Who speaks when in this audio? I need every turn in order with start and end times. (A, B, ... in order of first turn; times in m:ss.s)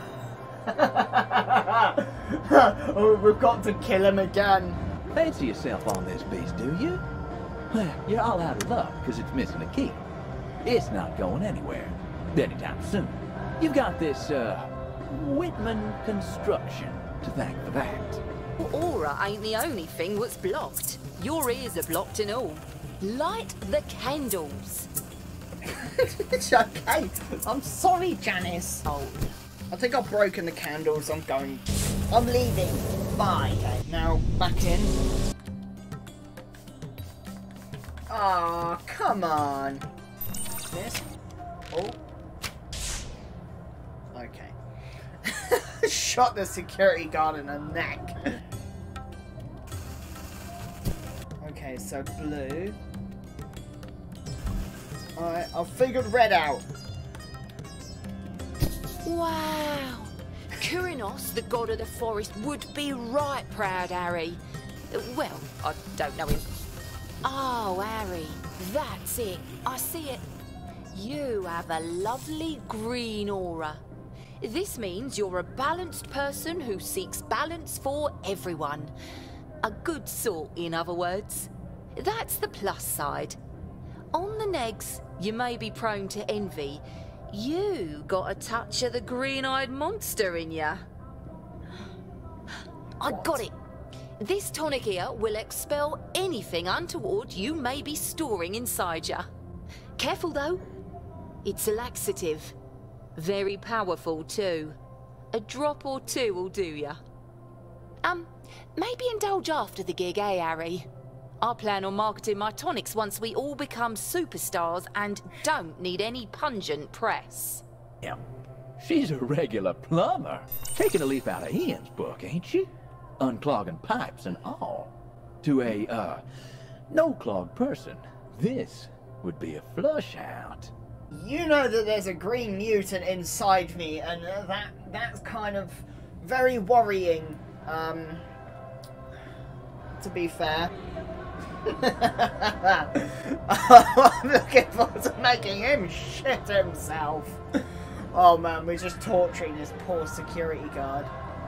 0:00.6-0:04.8 A
0:05.1-0:07.0 B
0:07.7-0:10.0 B
0:10.6-0:18.2 B
0:18.6-0:24.9 C
0:25.6-0:28.8 A
0:28.8-0:29.3 C
0:29.7-0:35.0 A
0:38.1-0:39.9 A
0:40.7-0:41.0 A
0:41.7-0:42.0 A
0:44.1-0:44.6 A
0:45.2-0:48.4 A
0:51.4-0:52.8 A
0:55.2-0:56.6 A
0:59.0-1:04.4 C
1:04.9-1:06.4 C
1:07.2-1:10.2 C
1:10.9-1:13.8 C
1:14.4-1:18.9 C
1:19.6-1:23.4 C
1:24.1-1:30.8 C
1:33.0-1:33.5 C
1:34.2-1:39.3 C
1:40.0-1:40.6 C
1:41.4-1:42.5 C
1:43.2-1:44.8 C
1:45.3-1:47.0 C
1:48.0-1:50.9 C
1:51.4-1:57.6 C
1:58.8-2:02.7 B
2:03.2-2:06.2 B
2:06.9-2:10.7 B
2:11.1-2:18.2 A
2:20.0-2:20.7 A
2:21.7-2:27.4 A
2:28.1-2:31.1 A